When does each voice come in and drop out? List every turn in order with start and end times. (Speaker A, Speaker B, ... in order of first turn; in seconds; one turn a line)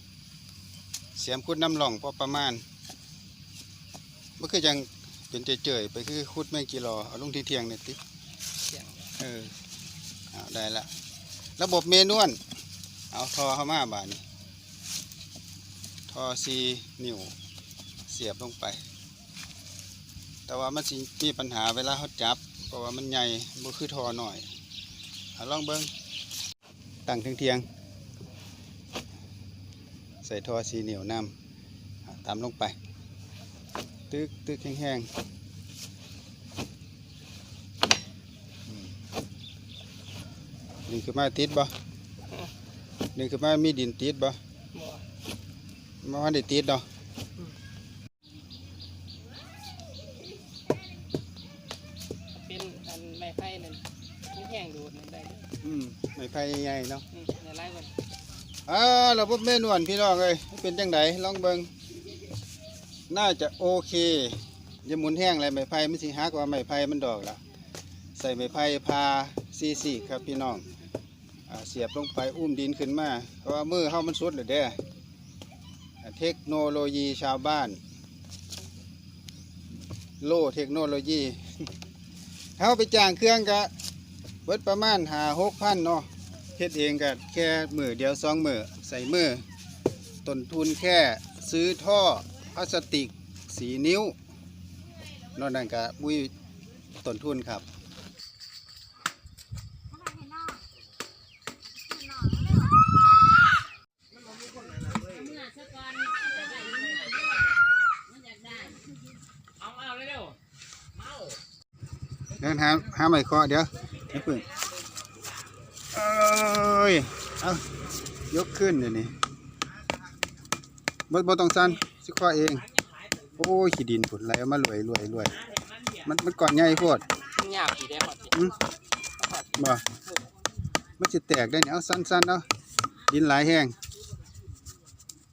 Speaker A: 1.1-2.6
Speaker A: 4.4-8.0
Speaker B: 8.7-9.1
Speaker A: 9.2-9.5
Speaker A: 10.3-10.9
Speaker A: 11.6-12.4
Speaker A: 13.1-14.2
Speaker A: 16.1-17.3
Speaker A: 18.1-18.8
Speaker A: 20.5-24.5
Speaker A: 25.4-25.9
Speaker A: 27.1-27.6
Speaker A: 30.2-31.3
Speaker A: 32.1-32.8
Speaker A: 34.1-35.1
Speaker A: 40.9-41.7
Speaker A: 43.1-44.4
Speaker B: 44.7-45.0
Speaker A: 46.0-46.8
Speaker B: 52.3-55.5
Speaker A: 55.6-57.0
Speaker B: 57.1-57.9
Speaker A: 58.7-61.7
Speaker A: 63.1-67.4
Speaker A: 68.2-70.7
Speaker A: 71.5-74.8
Speaker A: 76.0-77.8
Speaker A: 80.2-81.7
Speaker A: 82.6-83.7
Speaker A: 84.5-89.4
Speaker A: 90.2-94.2
Speaker A: 95.3-96.3
Speaker A: 97.0-97.6
Speaker B: 105.2-107.1
Speaker B: 108.4-108.7
Speaker A: 112.4-114.5
Speaker A: 115.9-117.6
Speaker A: 118.3-119.1
Speaker A: 121.1-122.7
Speaker A: 123.3-125.4
Speaker A: 126.0-127.0
Speaker B: 127.3-128.4
Speaker B: 129.2-129.6
Speaker A: 129.6-129.8
Speaker A: 131.0-132.5
Speaker A: 133.1-133.8